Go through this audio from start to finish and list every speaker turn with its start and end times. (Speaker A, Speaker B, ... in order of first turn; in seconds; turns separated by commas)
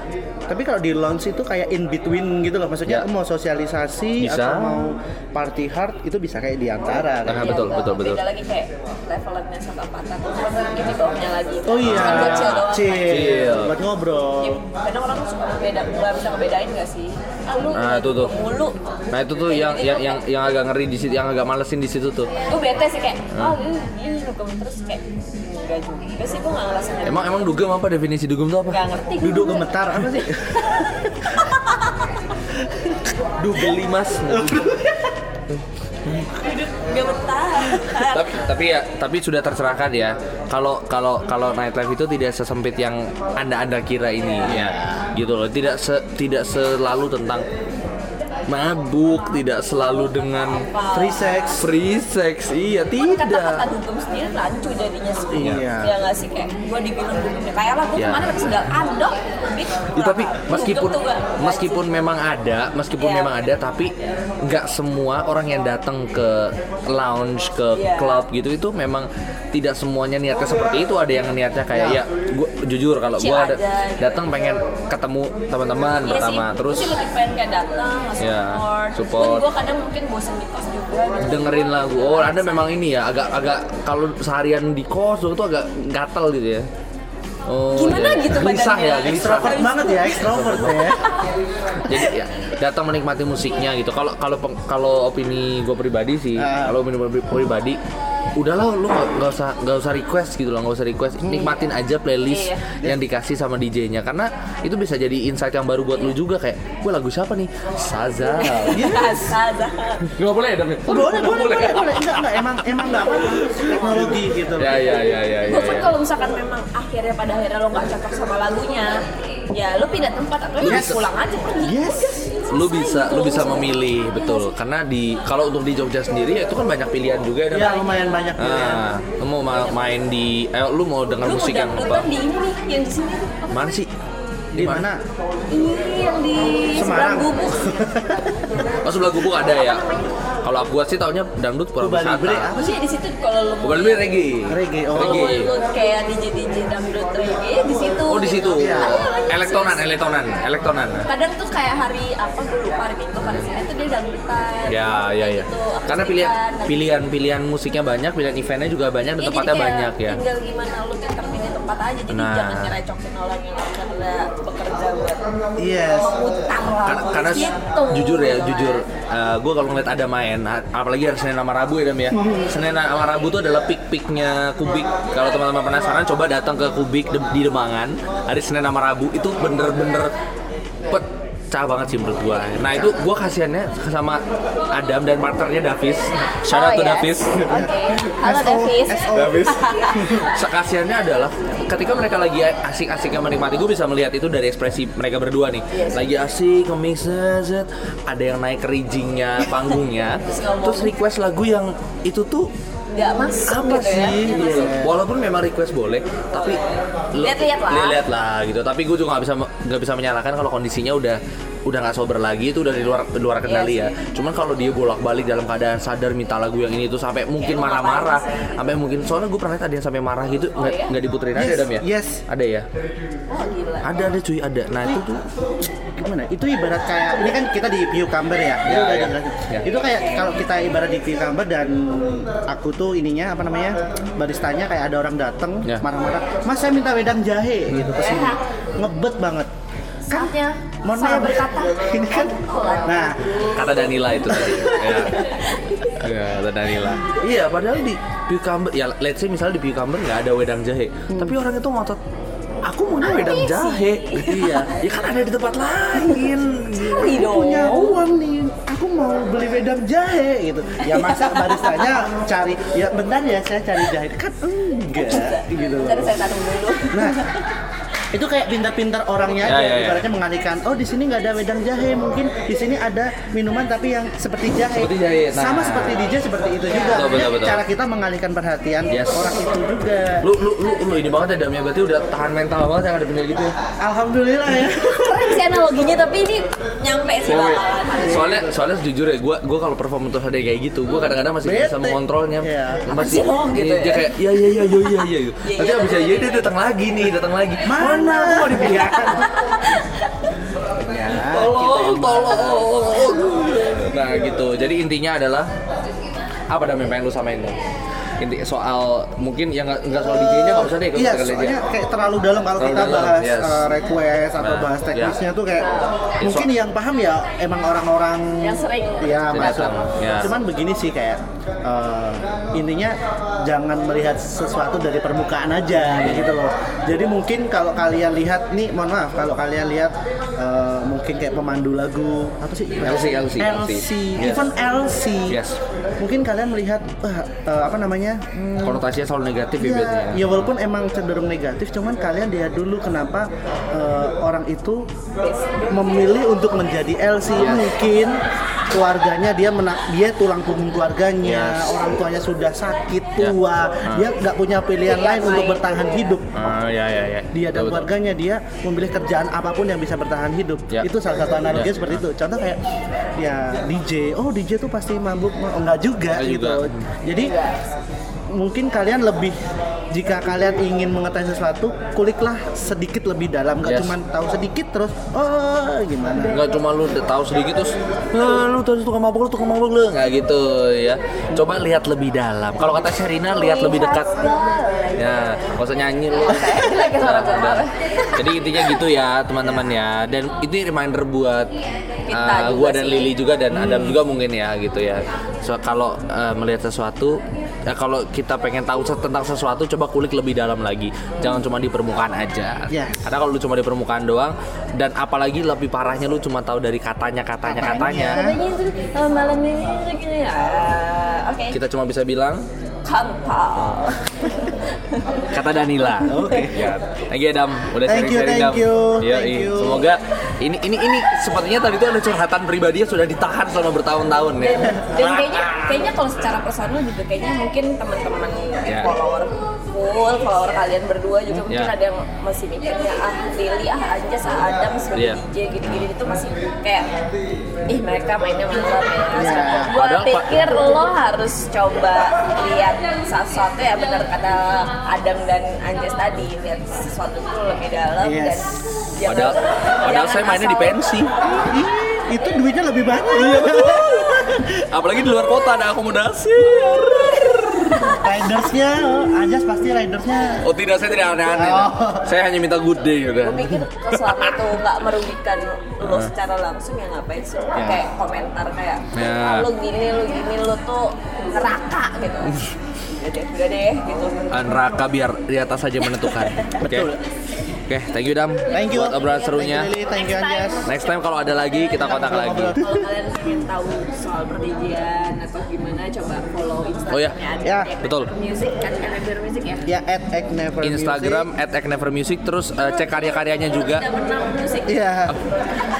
Speaker A: 0.5-7.6, Speaker B: 4.2-4.8, Speaker B: 7.3-8.2, Speaker C: 7.4-13.3, Speaker A: 11.7-14.6, Speaker B: 11.8-13.7, Speaker C: 14.4-18.8, Speaker B: 17.7-18.3, Speaker B: 19.1-22.3, Speaker C: 19.5-20.2, Speaker C: 22.4-27.5, Speaker B: 27.1-28.8, Speaker C: 28.7-32.1, Speaker A: 29.2-31.4, Speaker A: 32.7-32.9, Speaker B: 33.4-34.7, Speaker A: 34.3-35.2, Speaker C: 36.3-38.4, Speaker B: 37.7-47.5, Speaker A: 44.4-45.1, Speaker B: 48.5-50.7, Speaker C: 50.0-51.6, Speaker A: 50.9-51.7, Speaker B: 51.6-53.6, Speaker C: 53.0-61.9, Speaker A: 55.3-55.9, Speaker B: 58.0-58.4, Speaker B: 60.0-77.0, Speaker C: 63.0-63.5, Speaker C: 67.7-68.2, Speaker A: 71.7-72.0, Speaker C: 73.2-74.2, Speaker C: 76.0-82.7, Speaker B: 78.2-79.5, Speaker B: 81.2-86.7, Speaker B: 87.5-90.9, Speaker C: 87.7-91.3, Speaker A: 89.0-91.0, Speaker B: 91.9-97.8, Speaker A: 96.4-96.8, Speaker B: 98.4-108.9, Speaker A: 101.2-101.5, Speaker C: 102.3-102.7, Speaker C: 108.4-110.1, Speaker A: 108.7-109.2, Speaker B: 110.0-112.6, Speaker A: 110.9-115.0, Speaker B: 113.2-115.9, Speaker C: 115.5-124.5, Speaker B: 120.6-121.0, Speaker A: 120.7-121.0, Speaker A: 121.6-122.3, Speaker B: 122.5-127.8, Speaker A: 127.5-128.9, Speaker C: 127.7-128.2, Speaker B: 128.4-132.1, Speaker C: 131.2-133.7, Speaker B: 133.5-133.9, Speaker A: 134.5-135.0, Speaker B: 134.6-134.9, Speaker C: 135.5-138.8, Speaker A: 136.7-138.2, Speaker B: 138.8-139.9, Speaker C: 139.5-140.0, Speaker B: 140.4-142.5, Speaker A: 141.8-142.8, Speaker C: 142.5-144.2, Speaker B: 143.6-145.5, Speaker A: 144.5-145.4, Speaker C: 144.9-150.0, Speaker B: 148.1-151.1, Speaker A: 148.6-149.0, Speaker C: 151.1-156.9, Speaker B: 153.2-153.5, Speaker B: 154.7-160.2, Speaker C: 159.2-168.8, Speaker B: 162.1-162.8, Speaker A: 165.6-166.2, Speaker B: 166.8-180.1, Speaker A: 172.1-172.5, Speaker B: 180.9-187.6, Speaker A: 182.7-183.0, Speaker C: 186.5-190.3, Speaker A: 187.5-190.3, Speaker B: 189.1-202.5, Speaker C: 195.7-196.1, Speaker C: 200.3-200.9, Speaker C: 202.9-204.8, Speaker B: 203.5-206.6, Speaker A: 204.2-205.0, Speaker C: 206.3-208.0, Speaker B: 207.1-222.7, Speaker C: 213.4-214.0, Speaker C: 217.4-218.7, Speaker C: 220.6-221.0, Speaker A: 221.3-222.2, Speaker C: 223.3-224.1, Speaker B: 223.8-225.2, Speaker A: 225.6-239.5, Speaker B: 228.7-229.7, Speaker C: 237.9-238.4, Speaker C: 240.1-243.2, Speaker A: 240.8-243.3, Speaker B: 243.6-245.2, Speaker A: 244.3-245.0, Speaker C: 244.6-246.0, Speaker B: 246.0-252.0, Speaker A: 251.1-251.4, Speaker B: 252.7-257.2, Speaker C: 253.0-254.7, Speaker A: 254.2-254.7, Speaker C: 256.7-258.0, Speaker A: 257.1-266.2, Speaker C: 260.9-261.9, Speaker C: 264.9-267.4, Speaker A: 266.9-267.3, Speaker A: 268.1-280.3, Speaker B: 269.4-270.1, Speaker B: 274.7-276.1, Speaker C: 276.7-277.0, Speaker B: 276.7-277.6, Speaker B: 278.9-279.3, Speaker B: 280.2-283.6, Speaker A: 283.8-285.5, Speaker C: 285.0-288.5, Speaker B: 287.3-299.3, Speaker A: 288.0-288.5, Speaker A: 291.4-293.3, Speaker C: 292.9-294.8, Speaker C: 295.4-296.6, Speaker A: 297.6-299.3, Speaker C: 297.8-300.1, Speaker A: 300.8-302.7, Speaker B: 300.9-305.5, Speaker B: 306.5-307.6, Speaker B: 308.2-311.6, Speaker A: 310.1-335.4, Speaker B: 312.6-313.7, Speaker B: 314.4-315.2, Speaker C: 315.6-316.0, Speaker B: 316.2-316.5, Speaker C: 318.4-319.5, Speaker B: 319.3-320.3, Speaker B: 326.0-326.4, Speaker B: 332.8-334.5, Speaker B: 335.3-335.6, Speaker A: 336.0-338.9, Speaker B: 338.6-340.3, Speaker A: 339.6-344.9, Speaker C: 345.2-345.9, Speaker A: 345.7-356.3, Speaker B: 347.4-347.7, Speaker B: 351.2-351.8, Speaker C: 354.8-356.1, Speaker B: 356.3-357.9, Speaker A: 357.3-362.6, Speaker B: 361.5-362.0, Speaker A: 363.2-367.4, Speaker B: 366.1-366.9, Speaker C: 367.1-367.6, Speaker A: 368.3-369.4, Speaker A: 369.9-376.4, Speaker B: 373.6-374.0, Speaker B: 376.3-384.1, Speaker C: 383.3-385.6, Speaker B: 384.9-391.5, Speaker C: 386.2-388.8, Speaker C: 392.1-393.1, Speaker B: 392.1-408.2, Speaker A: 393.5-394.0, Speaker A: 402.7-403.0, Speaker A: 407.4-408.4, Speaker C: 407.9-411.6, Speaker B: 411.5-412.4, Speaker C: 412.8-415.3, Speaker B: 413.6-413.8, Speaker B: 415.3-425.8, Speaker A: 416.1-416.7, Speaker C: 416.2-416.5, Speaker A: 417.9-419.9, Speaker C: 424.4-437.0, Speaker B: 428.7-428.9, Speaker B: 434.9-435.9, Speaker C: 437.7-450.8, Speaker A: 439.2-439.8, Speaker B: 439.7-440.3, Speaker A: 448.0-448.6, Speaker B: 449.1-451.1, Speaker A: 451.3-454.6, Speaker B: 453.1-458.0, Speaker A: 456.6-460.5, Speaker B: 460.4-464.5, Speaker A: 461.3-462.1, Speaker C: 463.2-474.2, Speaker B: 465.8-466.1, Speaker A: 467.6-467.8, Speaker B: 468.9-469.5, Speaker B: 474.3-476.9, Speaker C: 476.0-476.5, Speaker A: 476.6-477.0, Speaker B: 477.7-479.7, Speaker A: 478.5-480.6, Speaker C: 479.0-480.9, Speaker B: 480.6-482.6, Speaker A: 481.8-482.8, Speaker C: 482.5-489.7, Speaker B: 486.9-487.2, Speaker A: 487.4-487.7, Speaker B: 487.8-488.1, Speaker A: 489.7-491.3, Speaker B: 490.6-493.9, Speaker C: 493.5-494.9, Speaker A: 494.7-495.2